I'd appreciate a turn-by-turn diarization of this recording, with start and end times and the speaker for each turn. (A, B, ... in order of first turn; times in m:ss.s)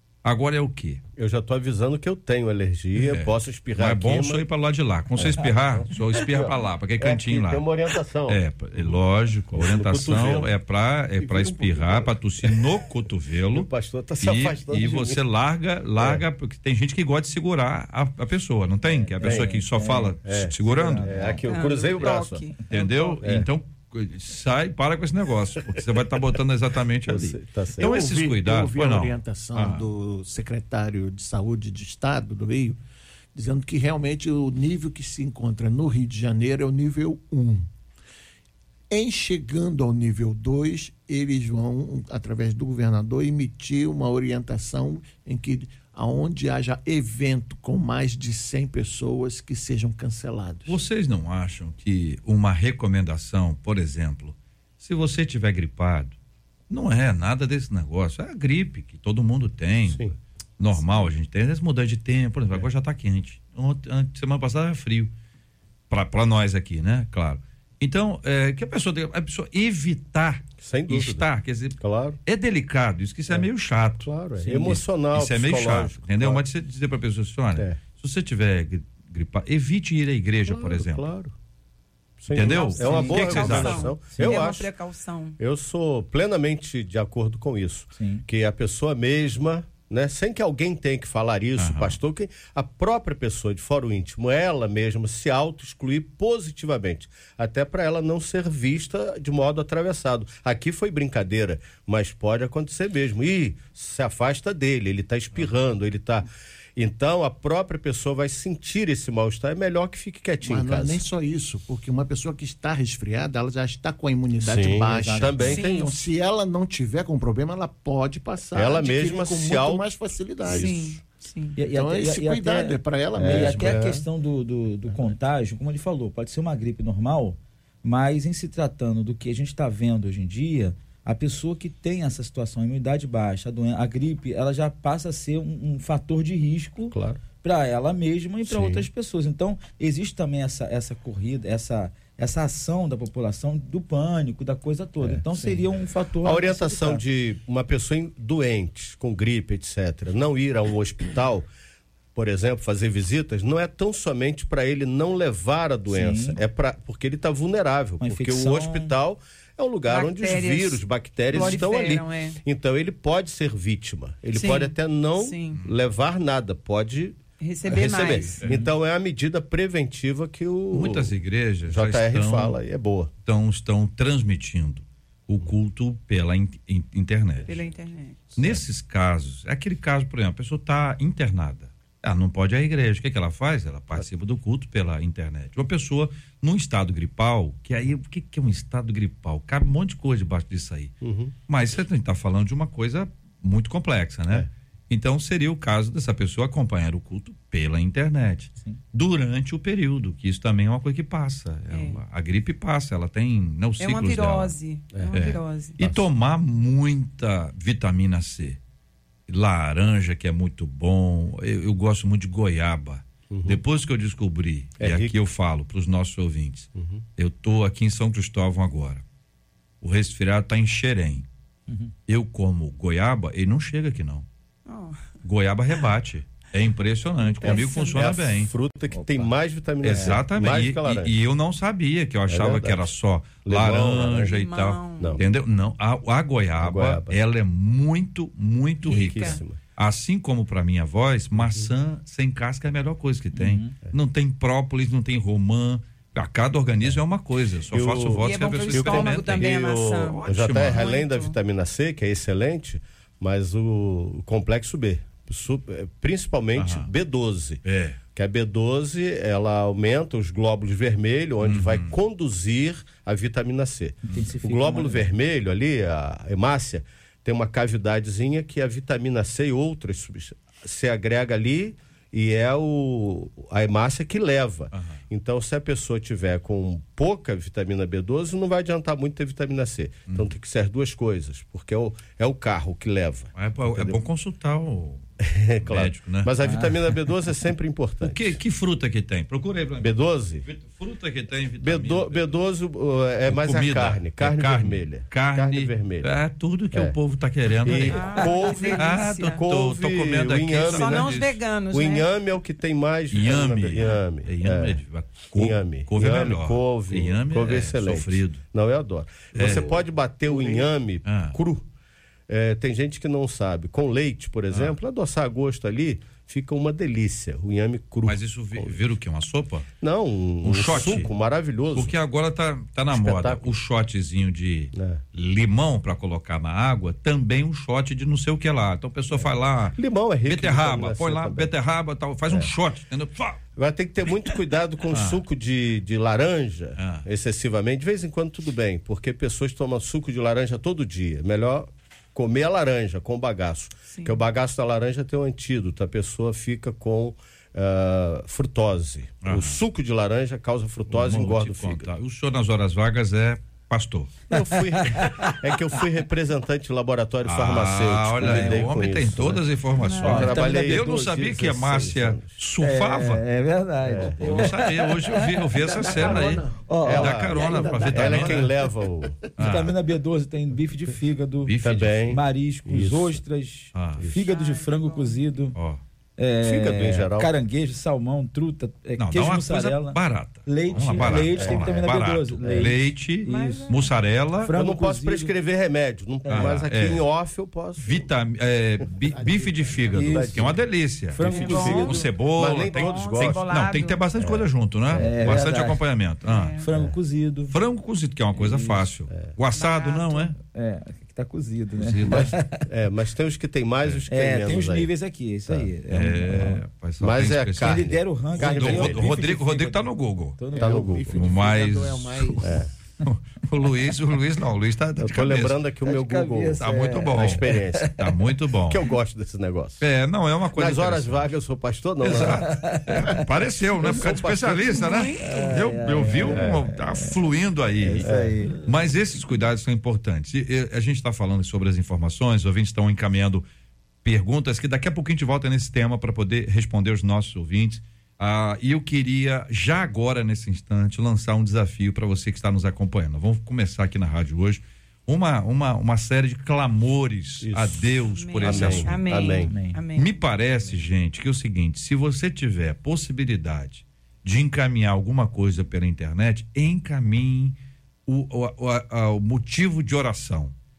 0:00.2-0:01.0 A
0:01.2-0:04.4 B
0:02.9-0:07.6 A
0:05.2-0:09.0 B
0:08.3-0:13.7 A
0:09.5-0:10.5 B
0:11.2-0:12.6 B
0:13.5-0:15.2 B
0:14.2-0:21.4 A
0:16.0-0:16.2 B
0:18.8-0:21.4 C
0:19.2-0:19.6 B
0:20.2-0:22.4 B
0:21.5-0:23.1 D
0:22.7-0:29.9 A
0:23.2-0:23.5 B
0:27.1-0:27.9 B
0:27.8-0:32.8 E
0:33.3-0:37.7 E
0:38.9-0:50.8 E
0:50.7-0:56.1 A
0:56.7-1:00.0 A
1:00.6-1:05.1 A
1:05.9-1:21.0 A
1:10.6-1:11.2 B
1:11.8-1:12.2 B
1:14.0-1:16.4 B
1:20.5-1:21.3 B
1:22.2-1:24.7 B
1:22.3-1:23.9 A
1:22.4-1:25.4 D
1:22.8-1:23.5 C
1:24.1-1:24.4 C
1:25.4-1:51.0 B
1:28.0-1:28.2 C
1:31.6-1:32.0 A
1:50.4-2:00.9 E
1:54.4-1:55.6 B
1:54.9-1:55.9 C
1:55.4-1:55.9 D
1:58.5-1:59.8 B
2:00.5-2:00.8 B
2:00.5-2:01.6 D
2:01.6-2:27.0 C
2:01.7-2:03.8 E
2:03.2-2:04.0 B
2:16.9-2:17.2 B
2:18.4-2:18.9 B
2:25.0-2:25.6 B
2:26.2-2:31.5 B
2:32.1-2:51.1 B
2:35.9-2:36.4 C
2:38.0-2:38.9 C
2:39.8-2:42.4 D
2:44.3-2:45.6 D
2:47.4-2:48.4 D
2:50.7-2:52.6 A
2:51.7-2:53.1 B
2:53.2-2:57.5 A
2:57.4-2:58.4 D
2:58.4-3:10.9 A
3:11.0-3:11.3 B
3:11.5-3:24.6 A
3:21.7-3:22.0 D
3:23.8-3:25.8 D
3:25.1-3:28.6 A
3:29.3-3:39.0 A
3:33.3-3:33.6 B
3:34.8-3:35.1 B
3:36.8-3:37.0 B
3:39.8-3:41.2 A
3:41.7-3:41.9 C
3:42.1-3:44.2 A
3:44.6-3:45.1 D
3:45.2-3:48.5 A
3:47.4-3:48.1 D
3:47.4-3:51.1 B
3:48.9-3:49.2 C
3:49.8-4:09.5 A
3:52.3-3:52.9 B
3:53.4-3:54.3 B
3:54.2-3:55.2 D
3:56.6-3:57.2 B
3:58.8-3:59.4 D
3:58.8-3:59.6 B
4:01.3-4:01.7 B
4:03.3-4:03.7 C
4:07.7-4:17.6 B
4:08.2-4:11.3 D
4:10.3-4:10.8 A
4:16.5-4:16.9 A
4:17.6-4:18.0 A
4:18.1-4:44.0 B
4:21.4-4:21.9 A
4:24.0-4:25.1 C
4:34.7-4:35.0 A
4:43.3-4:45.0 A
4:45.2-4:48.4 B
4:45.6-4:46.3 A
4:46.4-4:46.7 C
4:48.0-4:52.4 A
4:49.8-4:50.4 B
4:51.6-4:56.1 B
4:53.2-5:01.4 A
4:57.5-5:01.1 B
4:57.9-4:59.4 D
5:00.7-5:02.1 D
5:01.7-5:04.8 B
5:03.1-5:08.4 A
5:05.4-5:11.6 B
5:09.3-5:11.4 A
5:12.3-5:18.8 B
5:18.0-5:19.7 A
5:19.8-5:21.9 B
5:20.4-5:21.1 A
5:21.7-5:33.4 A
5:22.9-5:23.5 B
5:24.7-5:25.0 B
5:29.1-5:31.5 B
5:33.6-5:51.9 B
5:34.9-5:35.2 A
5:36.8-5:37.0 A
5:43.9-5:44.2 D
5:49.2-5:49.6 A
5:50.9-5:54.2 A
5:54.3-6:02.2 B
5:54.5-5:55.3 C
5:57.2-6:03.2 A
5:59.8-6:00.2 D
6:00.0-6:01.0 C
6:02.6-6:05.3 C
6:03.8-6:04.5 B
6:04.0-6:08.5 A
6:05.5-6:06.7 E
6:06.6-6:07.2 C
6:06.8-6:09.2 B
6:07.3-6:09.1 E
6:09.4-6:09.7 A
6:09.4-6:11.5 C
6:11.4-6:12.2 A
6:11.6-6:13.2 B
6:12.1-6:15.5 C
6:13.7-6:14.0 A
6:14.0-6:14.3 B
6:14.2-6:15.2 D
6:15.5-6:15.8 A
6:16.2-6:23.6 C
6:16.4-6:17.3 B
6:19.0-6:24.5 A
6:20.7-6:21.9 B
6:22.4-6:22.7 B
6:23.2-6:24.0 D
6:24.4-6:25.3 C
6:24.5-6:28.1 B
6:26.2-6:26.6 C
6:26.3-6:27.0 A
6:27.8-6:36.6 A
6:29.0-6:30.2 E
6:29.9-6:30.5 C
6:29.9-6:30.6 B
6:31.1-6:32.0 C
6:31.2-6:33.4 B
6:31.2-6:34.0 D
6:34.2-6:35.4 B
6:34.9-6:35.8 C
6:36.2-6:36.7 D
6:36.6-6:37.5 C
6:37.5-6:40.3 A
6:38.3-6:38.9 C
6:39.1-6:39.4 B
6:39.5-6:40.3 D
6:40.5-6:42.6 C
6:41.8-6:42.3 A
6:42.1-6:44.9 B
6:44.1-6:46.6 C
6:45.9-6:50.4 A
6:47.0-6:49.3 B
6:47.6-6:51.1 C
6:50.5-6:52.7 E
6:50.5-6:51.2 B
6:51.1-6:52.4 A
6:52.4-6:52.7 B
6:53.0-6:55.6 A
6:55.0-6:57.9 B
6:55.8-6:58.1 C
6:56.6-6:58.8 A
6:58.7-6:59.8 B
6:59.8-7:01.3 A
7:00.5-7:03.2 B
7:02.0-7:08.0 A
7:02.1-7:03.2 C
7:03.8-7:04.9 B
7:04.7-7:05.3 D
7:05.2-7:07.1 C
7:06.3-7:06.7 B
7:07.8-7:08.4 B
7:07.9-7:08.6 C
7:08.6-7:13.4 A
7:14.0-7:29.0 A
7:27.4-7:29.5 B
7:28.1-7:30.2 D
7:29.5-7:29.8 C
7:29.9-7:37.6 A
7:38.1-7:40.5 A